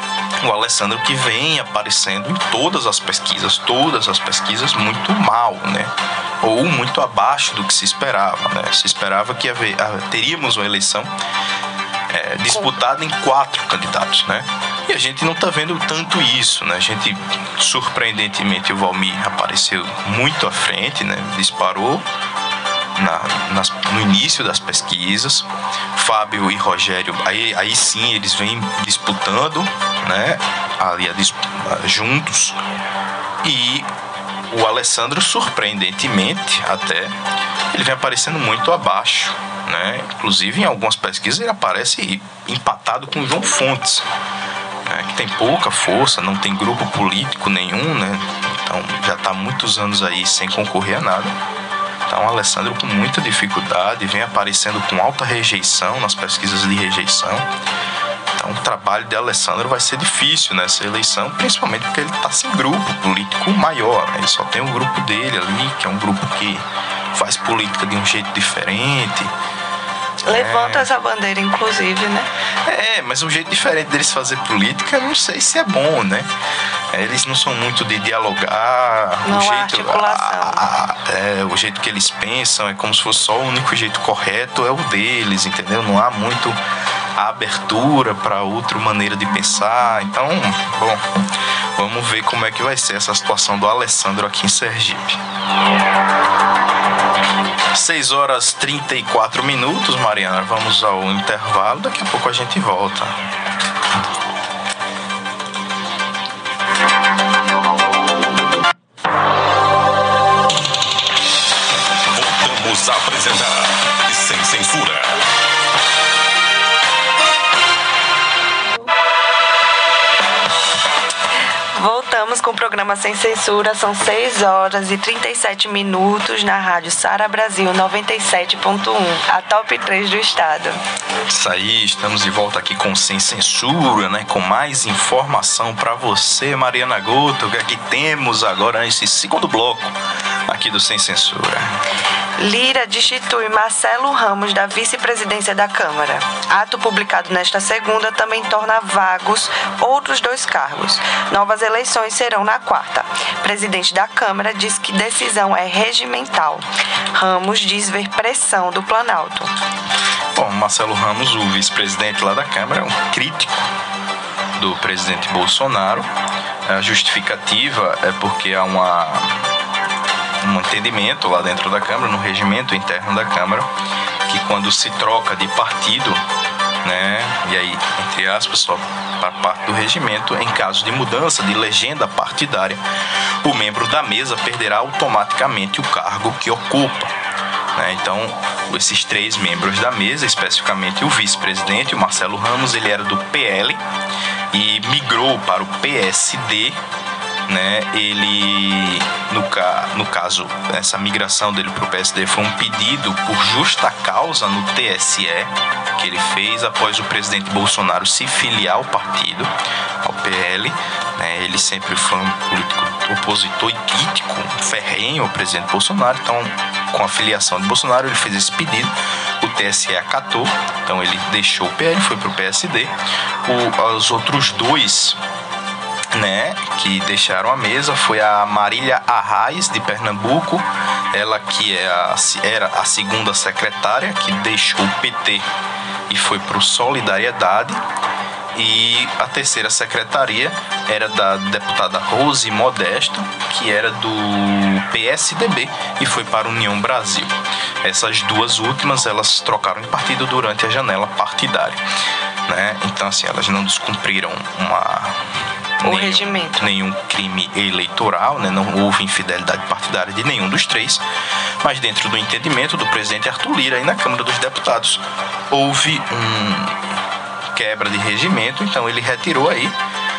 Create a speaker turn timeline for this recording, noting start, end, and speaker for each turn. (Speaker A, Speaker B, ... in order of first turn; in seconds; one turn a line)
Speaker A: 0.4-11.1
Speaker A: 12.1-22.1
Speaker A: 23.0-32.6
Speaker A: 33.4-33.9
Speaker A: 34.5-37.2
Speaker A: 37.7-44.1
Speaker A: 44.9-51.3
Speaker A: 52.1-57.5
Speaker A: 58.4-69.3
Speaker A: 70.2-70.9
Speaker B: 70.2-72.3
Speaker A: 72.7-76.3
Speaker A: 76.9-86.6
Speaker B: 79.2-80.6
Speaker A: 87.2-91.0
Speaker A: 91.8-95.2
Speaker A: 97.7-103.2
Speaker C: 112.1-115.2
Speaker B: 121.8-130.8
Speaker A: 131.3-141.8
Speaker B: 142.4-159.5
Speaker A: 160.3-163.7
Speaker A: 164.6-166.1
Speaker A: 166.7-169.5
Speaker A: 170.4-173.7
Speaker A: 174.3-176.2
Speaker A: 176.8-182.8
Speaker A: 183.4-187.2
Speaker A: 187.8-193.8
Speaker A: 194.5-196.8
Speaker A: 197.5-209.5
Speaker A: 210.0-222.9
Speaker A: 223.4-225.2
Speaker A: 226.1-235.5
Speaker A: 236.1-237.8
Speaker A: 238.6-251.8
Speaker A: 252.5-255.3
Speaker A: 255.8-261.0
Speaker B: 255.8-256.7
Speaker A: 261.6-266.9
Speaker A: 267.5-269.8